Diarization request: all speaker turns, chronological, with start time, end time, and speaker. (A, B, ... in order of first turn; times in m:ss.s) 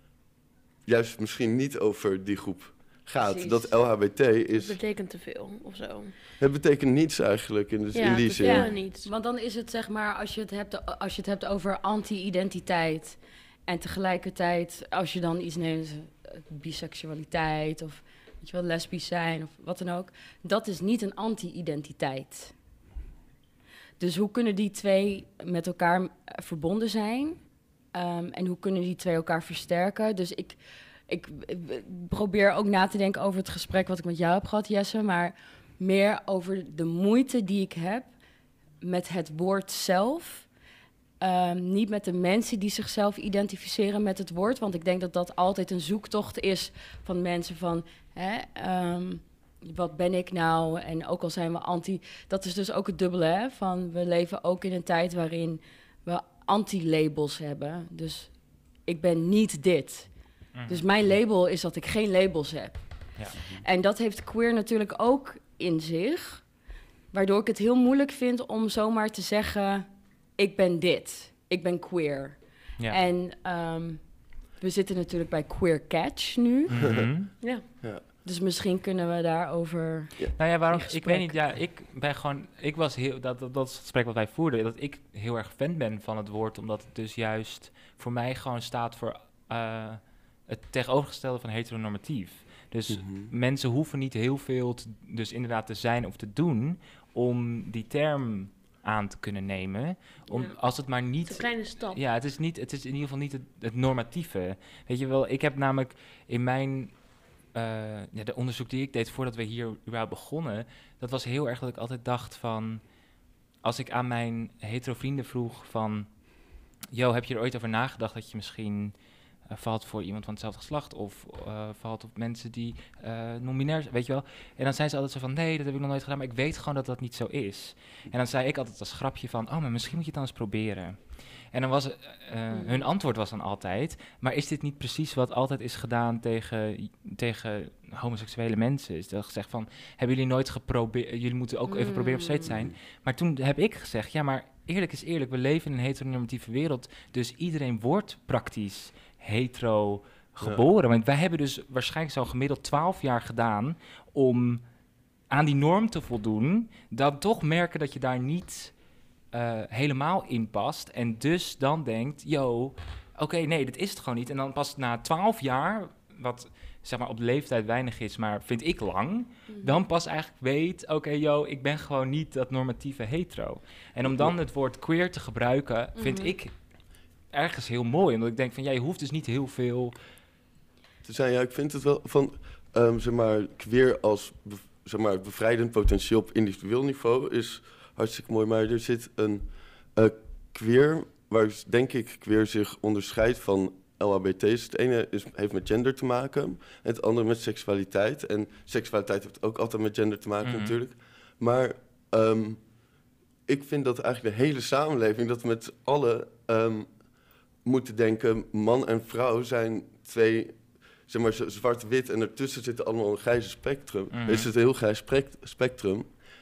0:00.8-0:04.8 A
0:03.2-0:03.7 B
0:04.5-0:06.1 C
0:06.4-0:08.7 A
0:07.9-0:09.1 C
0:08.4-0:22.5 B
0:24.0-0:27.4 B
0:27.9-0:38.1 B
0:38.8-0:40.5 B
0:41.2-1:00.1 B
1:00.5-1:00.8 D
1:00.7-1:02.8 B
1:03.6-1:06.5 B
1:07.1-1:16.8 B
1:16.7-1:17.3 D
1:18.2-1:21.4 B
1:20.4-1:52.9 D
1:32.9-1:33.3 A
1:40.3-1:40.5 C
1:41.2-1:42.0 C
1:53.6-1:56.3 D
1:56.9-2:34.6 D
2:21.7-2:22.5 B
2:35.3-2:38.7 D
2:39.3-2:56.5 D
2:49.5-2:49.8 B
2:54.0-2:54.3 A
2:56.0-2:56.3 B
2:57.3-2:59.9 D
3:01.0-3:09.4 A
3:09.9-3:22.6 A
3:20.4-3:20.7 D
3:23.5-3:26.9 A
3:27.6-3:36.1 A
3:34.1-3:34.5 D